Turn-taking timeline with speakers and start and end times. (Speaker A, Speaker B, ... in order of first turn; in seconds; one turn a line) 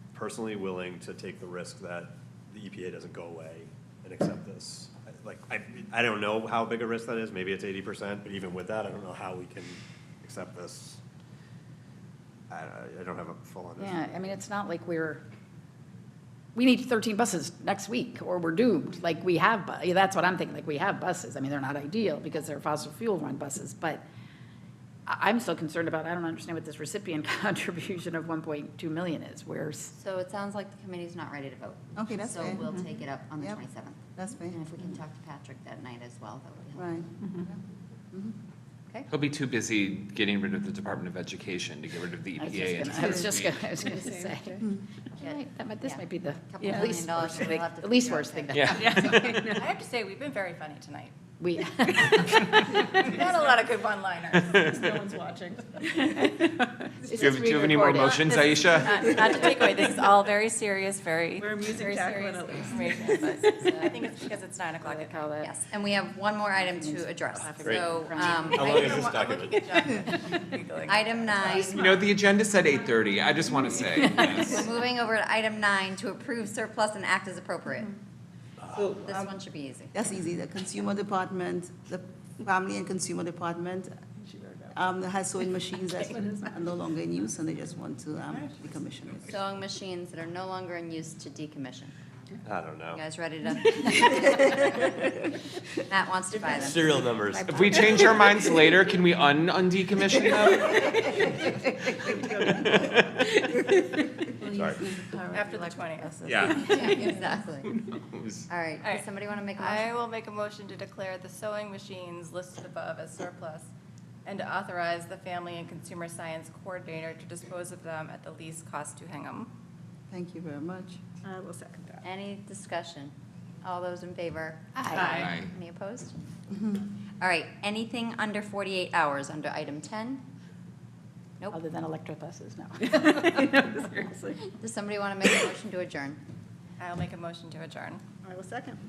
Speaker A: 0.1-11.0
Speaker A: 12.5-14.3
Speaker B: 13.8-15.2
Speaker B: 16.5-24.0
Speaker B: 25.1-29.9
Speaker C: 29.9-34.0
Speaker D: 31.9-32.7
Speaker D: 34.1-34.6
Speaker C: 34.5-36.9
Speaker D: 36.8-37.1
Speaker E: 39.1-43.6
Speaker B: 42.4-49.6
Speaker F: 43.8-44.5
Speaker C: 45.2-49.3
Speaker E: 48.5-48.8
Speaker F: 48.8-49.4
Speaker G: 49.5-51.1
Speaker B: 51.4-52.4
Speaker G: 52.4-54.8
Speaker F: 54.5-55.8
Speaker B: 55.9-58.2
Speaker F: 57.1-57.9
Speaker E: 57.2-59.1
Speaker G: 57.7-65.2
Speaker F: 59.1-59.4
Speaker F: 61.4-63.2
Speaker B: 63.5-64.0
Speaker B: 64.8-65.5
Speaker C: 65.4-69.0
Speaker B: 66.6-68.9
Speaker A: 67.6-69.6
Speaker G: 68.7-71.7
Speaker C: 70.8-71.9
Speaker F: 71.5-72.0
Speaker E: 71.6-74.7
Speaker C: 74.3-77.9
Speaker C: 79.0-79.9
Speaker D: 79.9-84.0
Speaker F: 84.2-84.7
Speaker D: 84.7-89.4
Speaker C: 89.3-91.9
Speaker A: 92.4-93.0
Speaker C: 92.9-95.2
Speaker C: 95.8-98.3
Speaker A: 96.3-97.8
Speaker E: 97.5-101.2
Speaker E: 102.2-103.1
Speaker A: 104.5-104.8
Speaker D: 104.8-106.4
Speaker G: 105.3-107.0
Speaker E: 106.2-106.7
Speaker C: 106.6-107.8
Speaker E: 108.0-108.4
Speaker C: 108.5-109.9
Speaker G: 108.8-113.7
Speaker G: 114.2-119.5
Speaker D: 120.1-121.0
Speaker F: 121.2-122.0
Speaker C: 122.0-126.2
Speaker B: 124.7-125.2
Speaker G: 124.9-125.3
Speaker E: 125.0-125.5
Speaker C: 127.2-130.2
Speaker B: 131.5-134.1
Speaker F: 133.5-134.3
Speaker C: 134.6-136.2
Speaker G: 136.8-138.0
Speaker F: 138.2-138.8